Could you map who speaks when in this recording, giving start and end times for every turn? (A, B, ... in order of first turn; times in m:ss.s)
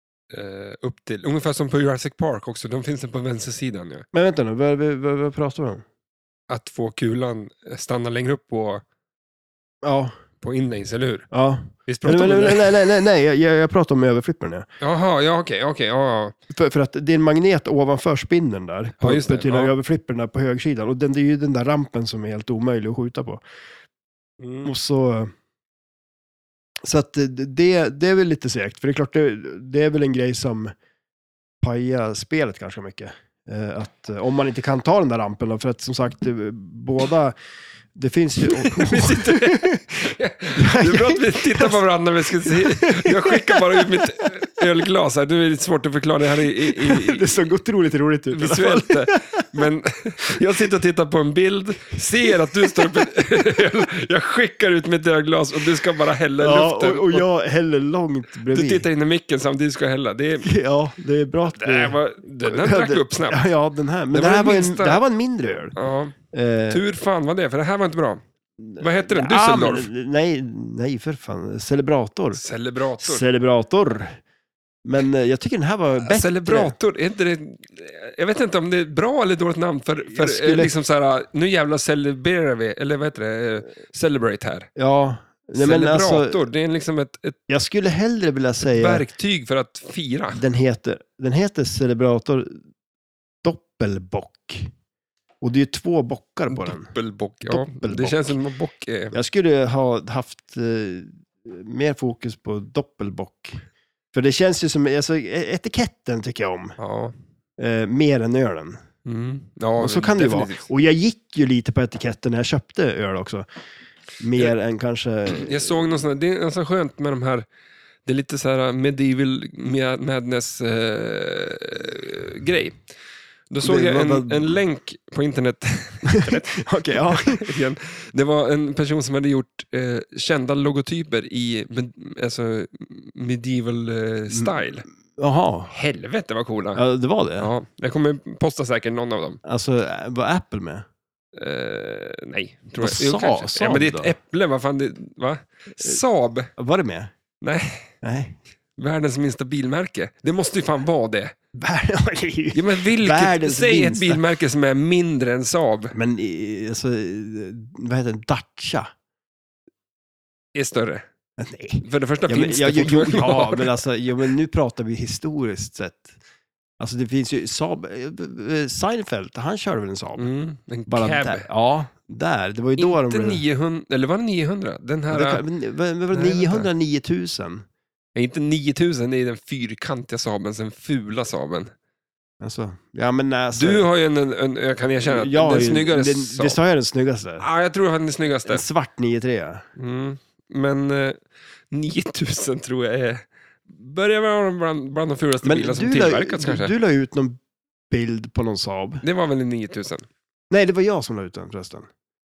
0:00.3-0:04.0 A
0:04.1-0:05.8 B
0:06.5-0:08.8 A
0:09.8-0:10.1 B
0:10.4-0:11.3 A
0:11.3-0:14.7 B
0:11.8-0:12.8 A
0:14.8-0:16.3 A
0:16.5-0:23.4 B
0:19.0-0:19.7 A
0:24.4-0:24.7 A
0:24.6-0:25.3 B
0:26.8-0:30.7 B
0:31.6-0:37.3 B
0:37.9-0:44.0 B
0:38.5-0:47.2 A
0:46.6-0:49.7 B
0:48.3-0:57.2 A
0:52.4-0:53.1 B
0:56.4-0:58.8 B
0:58.5-1:00.5 A
1:00.4-1:05.7 B
1:01.5-1:03.4 A
1:04.1-1:05.0 A
1:05.7-1:06.1 A
1:06.3-1:06.8 B
1:06.7-1:08.2 A
1:08.6-1:12.4 B
1:08.8-1:09.9 A
1:12.3-1:13.2 A
1:13.0-1:14.2 B
1:14.8-1:16.7 B
1:16.0-1:24.7 A
1:20.1-1:20.7 B
1:24.8-1:26.4 B
1:25.6-1:27.4 A
1:27.5-1:29.0 B
1:28.7-1:30.4 A
1:30.3-1:32.6 B
1:33.4-1:34.7 B
1:35.4-1:36.9 B
1:36.5-1:39.1 A
1:37.4-1:38.4 B
1:39.1-1:43.6 B
1:44.1-1:46.8 B
1:46.8-1:47.1 A
1:47.6-1:48.8 B
1:49.0-1:50.6 A
1:49.8-1:53.4 B
1:54.2-1:55.8 B
1:55.3-1:57.4 A
1:58.0-2:02.8 A
2:03.5-2:14.8 A
2:03.6-2:04.6 B
2:06.1-2:07.5 B
2:15.2-2:15.7 B
2:15.7-2:16.8 A
2:16.8-2:17.5 B
2:17.4-2:19.4 A
2:19.4-2:20.8 B
2:21.4-2:26.5 A
2:22.8-2:24.1 B
2:26.6-2:27.1 B
2:27.4-2:27.9 A
2:28.0-2:28.4 B
2:28.8-2:31.3 A
2:31.5-2:34.2 B
2:32.5-2:35.9 A
2:35.9-2:38.9 B
2:40.5-2:41.0 A
2:41.4-2:46.1 B
2:41.8-2:43.7 A
2:46.8-2:50.3 B
2:50.2-2:51.5 A
2:50.9-2:53.4 B
2:52.8-2:55.4 A
2:55.1-2:57.6 B
2:56.1-2:56.7 A
2:58.1-3:01.7 A
3:02.4-3:03.8 B
3:03.5-3:06.6 A
3:05.0-3:07.4 B
3:07.4-3:08.6 A
3:08.5-3:09.6 B
3:09.8-3:11.2 A
3:11.7-3:16.7 A
3:15.4-3:17.4 B
3:17.9-3:19.0 B
3:19.0-3:20.1 A
3:20.5-3:21.9 B